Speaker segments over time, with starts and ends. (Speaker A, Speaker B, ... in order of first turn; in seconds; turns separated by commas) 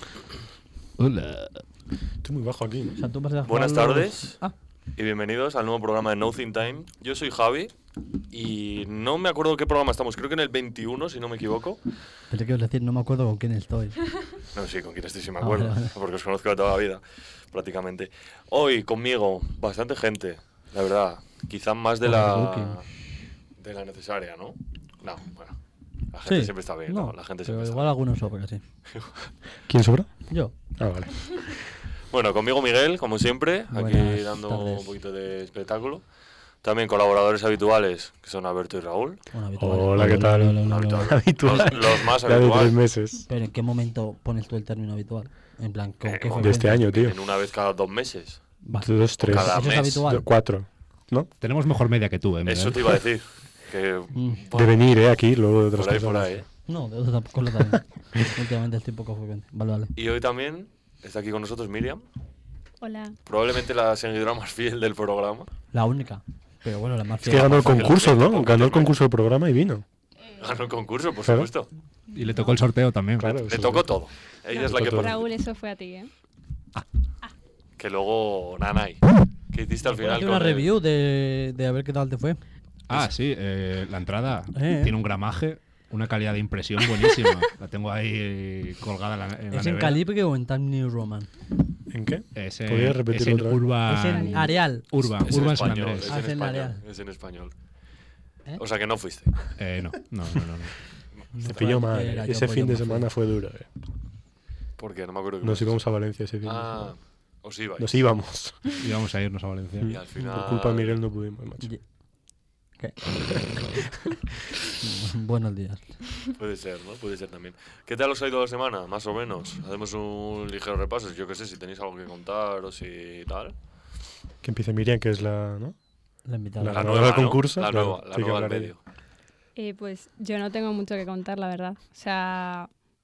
Speaker A: 1.0-1.6, Speaker B: 2.2-3.0, Speaker C: 3.0-4.5, Speaker D: 3.4-4.4, Speaker D: 5.0-7.7, Speaker D: 8.3-11.8, Speaker C: 12.3-14.0, Speaker D: 14.5-22.9, Speaker C: 15.4-15.9, Speaker C: 22.0-22.8, Speaker D: 23.6-25.6, Speaker D: 26.1-27.9, Speaker C: 26.2-28.6, Speaker D: 28.9-29.3, Speaker B: 29.7-31.6, Speaker C: 30.3-30.5, Speaker D: 32.1-36.0, Speaker C: 33.7-34.9, Speaker D: 36.6-39.2, Speaker C: 39.3-41.1, Speaker B: 39.6-43.2, Speaker D: 40.6-42.8, Speaker C: 43.3-46.8, Speaker D: 46.0-48.5, Speaker B: 46.4-47.1, Speaker C: 48.6-50.3, Speaker B: 48.7-51.3, Speaker D: 49.2-50.1, Speaker A: 51.4-52.9, Speaker D: 52.4-54.9, Speaker C: 54.1-54.4, Speaker B: 54.5-56.4, Speaker D: 55.7-56.5, Speaker C: 56.6-59.9, Speaker D: 59.9-62.0, Speaker E: 62.8-63.1, Speaker D: 63.3-65.5, Speaker C: 65.7-68.0, Speaker B: 67.2-69.8, Speaker D: 67.2-69.0, Speaker D: 70.4-71.7, Speaker A: 72.1-73.5, Speaker E: 72.1-72.5, Speaker B: 73.2-74.0, Speaker D: 73.4-75.2, Speaker E: 74.5-76.1, Speaker B: 74.6-75.2, Speaker D: 77.8-80.7, Speaker C: 79.8-82.4, Speaker A: 82.9-90.0, Speaker C: 84.5-84.9, Speaker C: 89.5-91.3, Speaker B: 91.9-93.8, Speaker A: 92.3-96.2, Speaker C: 93.8-94.9, Speaker E: 94.1-94.6, Speaker D: 95.2-97.5, Speaker C: 96.0-96.8, Speaker D: 98.6-99.3, Speaker A: 99.6-100.8, Speaker C: 101.3-103.1, Speaker B: 101.4-103.7, Speaker D: 104.8-105.8, Speaker B: 105.4-106.9, Speaker D: 106.4-108.1, Speaker B: 107.8-108.6, Speaker A: 108.8-110.0, Speaker B: 109.7-111.7, Speaker D: 109.9-111.0, Speaker C: 112.8-113.7, Speaker C: 114.8-116.0, Speaker D: 116.4-123.5, Speaker B: 124.4-125.8, Speaker C: 126.2-126.9, Speaker B: 126.6-128.7, Speaker D: 126.7-128.8, Speaker E: 129.6-132.7